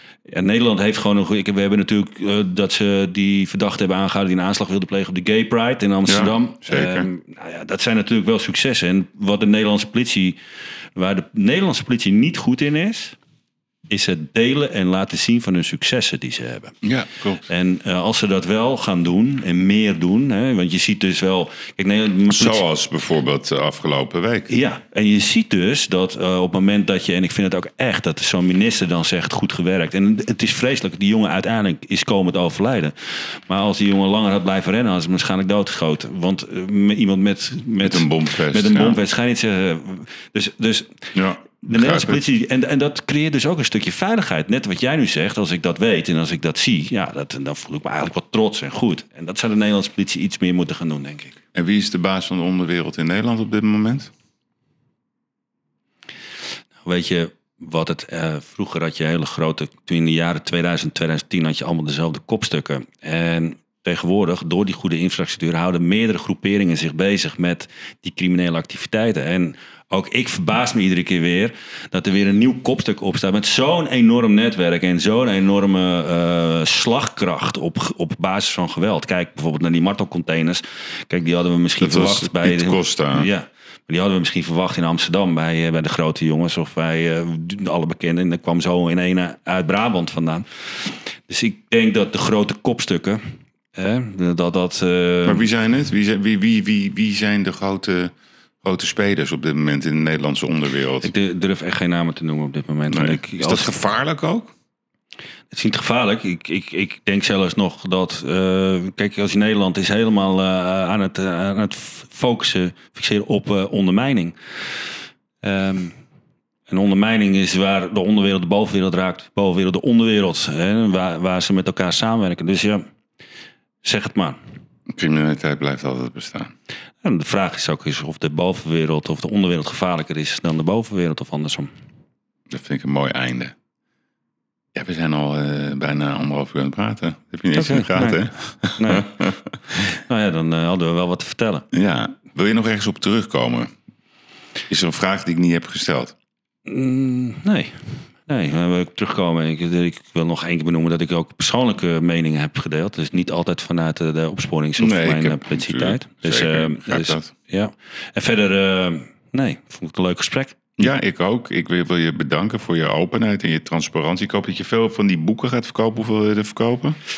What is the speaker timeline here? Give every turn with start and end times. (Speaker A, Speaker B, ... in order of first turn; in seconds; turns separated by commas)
Speaker A: 0.3-10.4, Speaker B: 6.0-7.1, Speaker A: 10.9-13.2, Speaker A: 13.9-16.8, Speaker B: 16.8-17.4, Speaker A: 17.4-22.6, Speaker B: 22.3-24.5, Speaker A: 24.5-51.4, Speaker B: 37.8-39.0, Speaker B: 41.1-42.2, Speaker B: 51.5-54.1, Speaker A: 56.8-93.2, Speaker B: 81.8-83.3, Speaker A: 93.7-95.5, Speaker B: 95.2-101.1, Speaker A: 101.0-103.7, Speaker B: 102.9-104.5, Speaker A: 105.5-114.3, Speaker A: 115.4-116.0, Speaker A: 116.7-122.8, Speaker A: 123.8-124.4, Speaker B: 124.9-126.5, Speaker A: 127.0-131.7, Speaker B: 132.5-133.5, Speaker B: 134.7-139.8, Speaker A: 137.5-138.3, Speaker A: 138.8-139.1, Speaker A: 140.1-141.7, Speaker B: 141.7-143.7, Speaker B: 144.7-146.1, Speaker A: 146.7-160.6, Speaker B: 154.8-157.3, Speaker B: 160.8-167.0